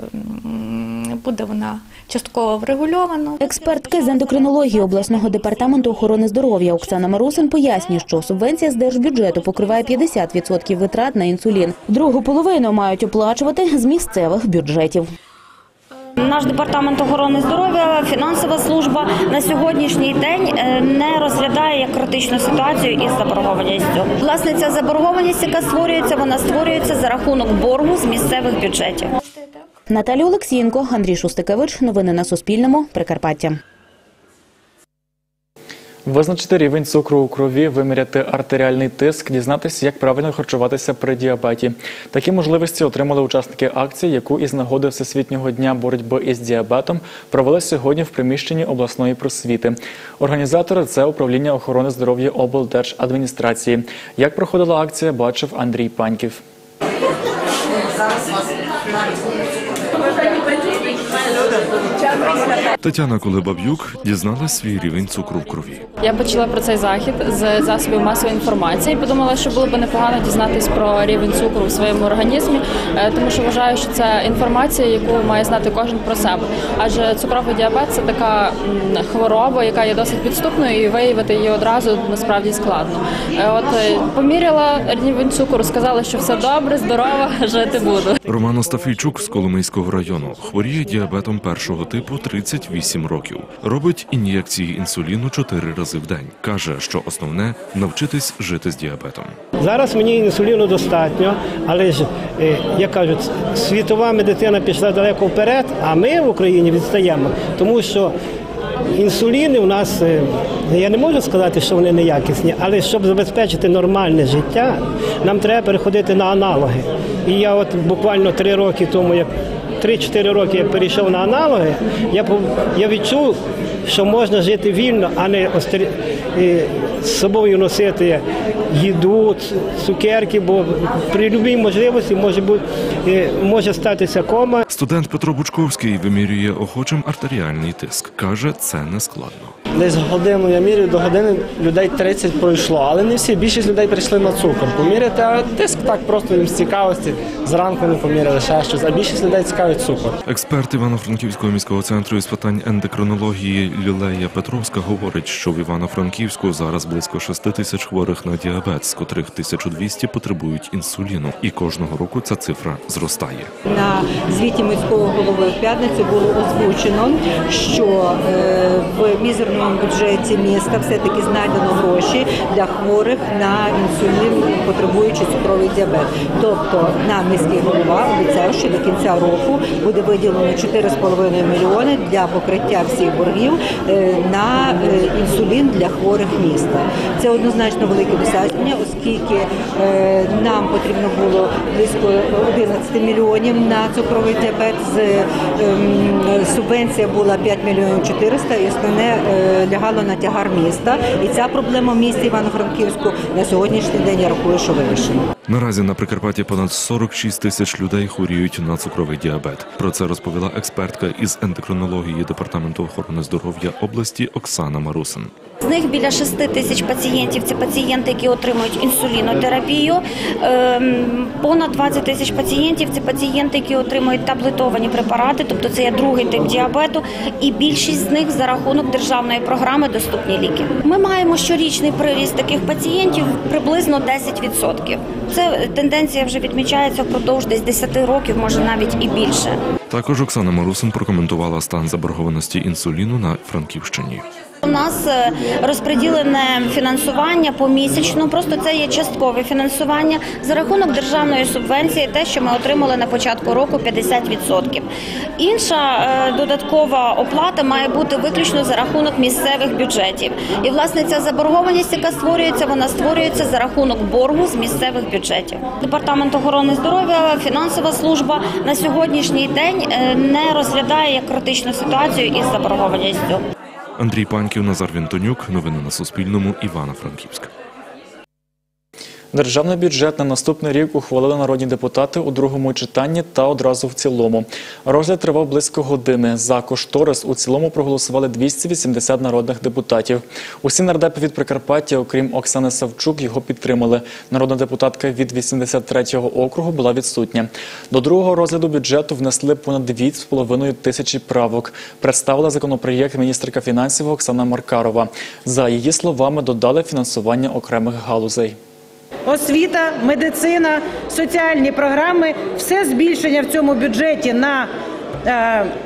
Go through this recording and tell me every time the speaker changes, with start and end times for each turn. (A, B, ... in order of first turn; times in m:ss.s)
0:00.5-0:03.4 A
0:03.4-0:15.1 B
0:16.2-0:29.1 C
0:29.9-0:33.6 B
0:36.1-0:56.4 D
1:02.8-1:05.9 E
1:06.0-1:28.2 F
1:28.2-1:39.4 E
1:39.6-1:48.1 G
1:49.0-1:59.3 G
1:59.8-2:03.4 G
2:03.9-2:08.2 G
2:08.7-2:14.6 G
2:14.7-2:19.5 E
2:20.0-2:30.1 H
2:30.2-2:43.5 E
2:43.7-3:25.2 I
3:25.5-3:35.3 E
3:35.6-3:59.6 C
3:59.9-4:04.3 E
4:04.6-4:14.9 C
4:15.4-4:33.4 C
4:34.0-4:37.5 E
4:39.3-5:08.6 D
5:09.3-5:14.7 J
5:15.3-5:15.7 J